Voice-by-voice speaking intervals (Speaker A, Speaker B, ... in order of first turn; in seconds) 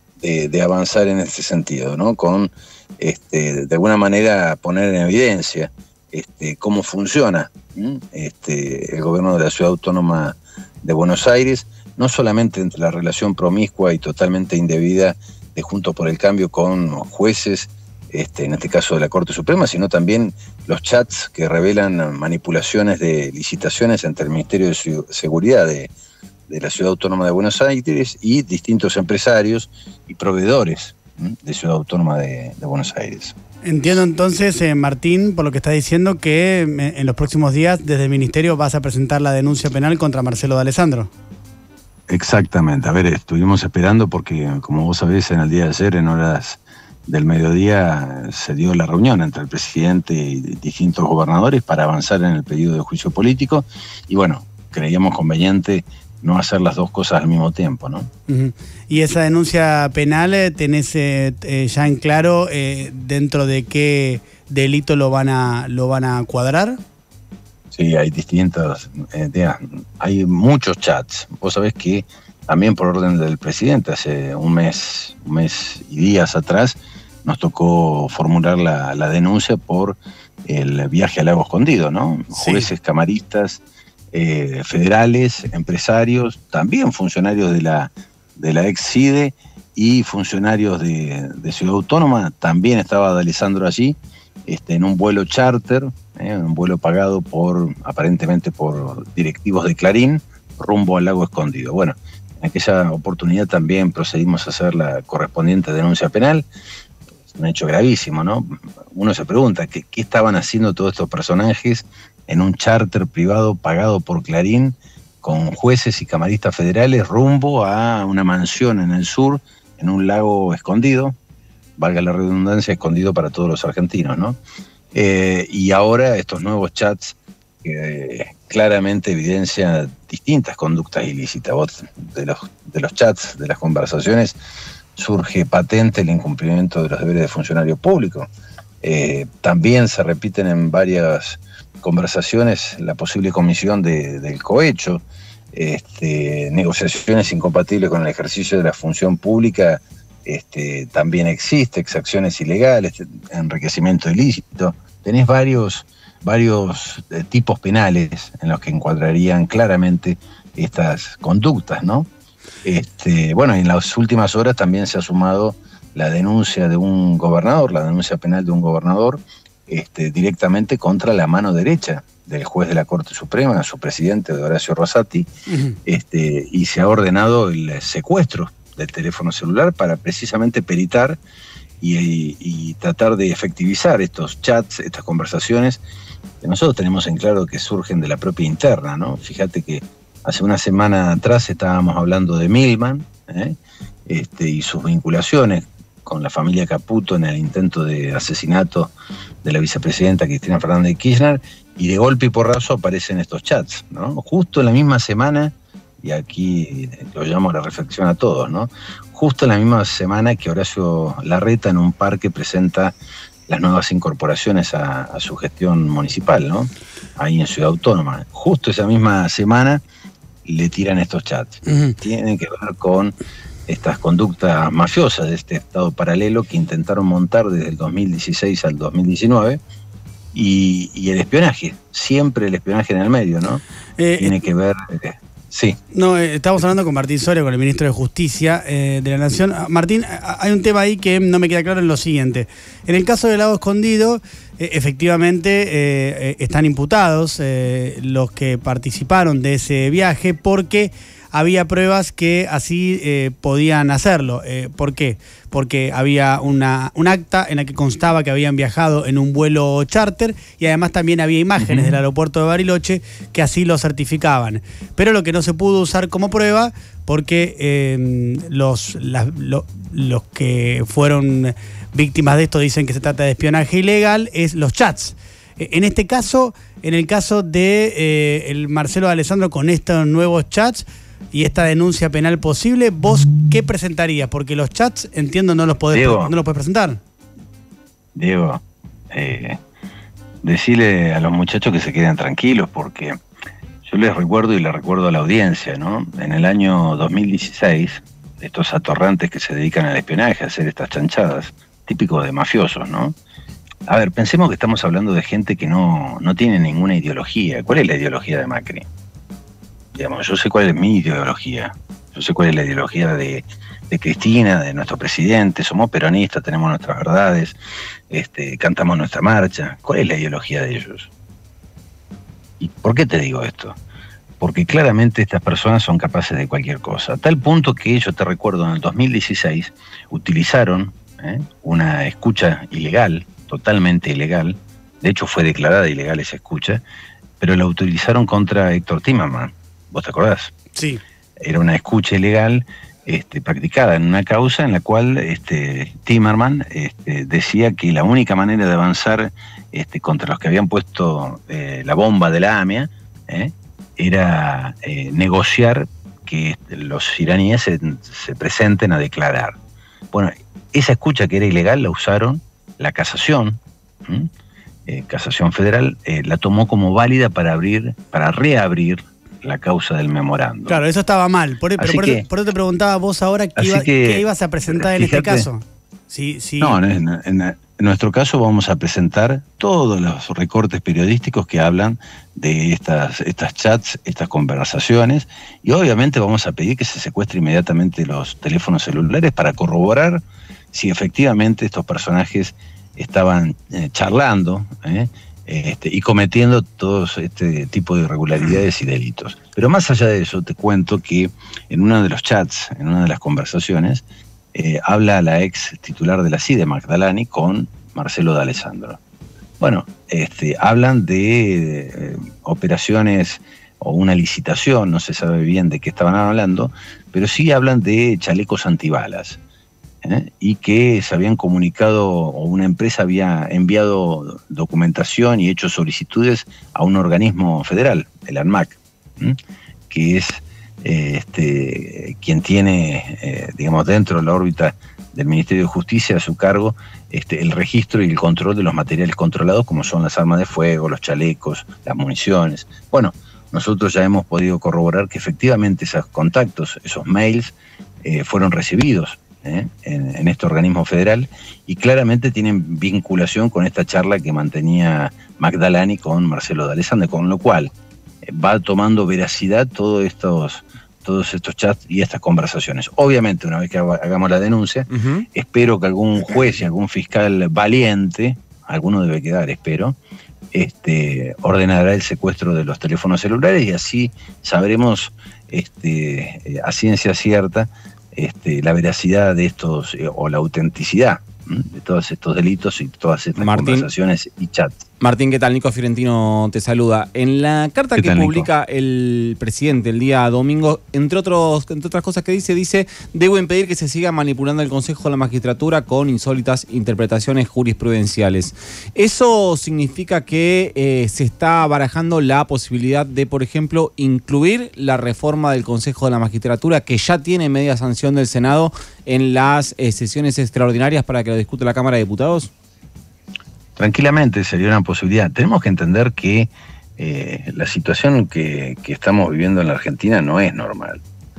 Speaker A: 0.2-25.9, 26.5-33.4, 42.1-58.1, 67.7-83.6, 84.1-106.5, 107.3-121.2, 121.8-124.4, 124.9-134.4, 135.0-138.3, 138.8-162.1, 162.6-175.3, 175.9-181.2, 181.8-185.8, 186.4-198.9, 199.4-212.9, 213.5-219.8, 220.4-223.2, 223.7-229.6, 230.3-233.6, 234.2-235.8, 261.6-262.0, 285.9-286.3, 288.1-289.6, 290.4-293.2, 293.9-303.2, 303.9-308.9, 310.0-317.6, 318.1-321.1, 322.6-323.8, 324.4-336.8, 337.4-340.5, 341.4-359.6, 360.1-364.3, 364.9-370.8, 371.8-372.3, 373.6-375.5, 376.6-409.0, 409.6-419.4, 420.0-429.4, 429.9-457.7, 458.2-470.0, 470.5-484.8, 488.0-488.5, 513.8-521.0
Speaker B: 33.6-41.1, 58.3-66.8, 82.3-82.7, 175.5-175.8, 221.7-221.9, 234.0-234.4, 235.9-287.0, 340.8-341.0, 370.7-376.8
Speaker C: 464.9-465.2, 483.4-483.9, 485.0-512.5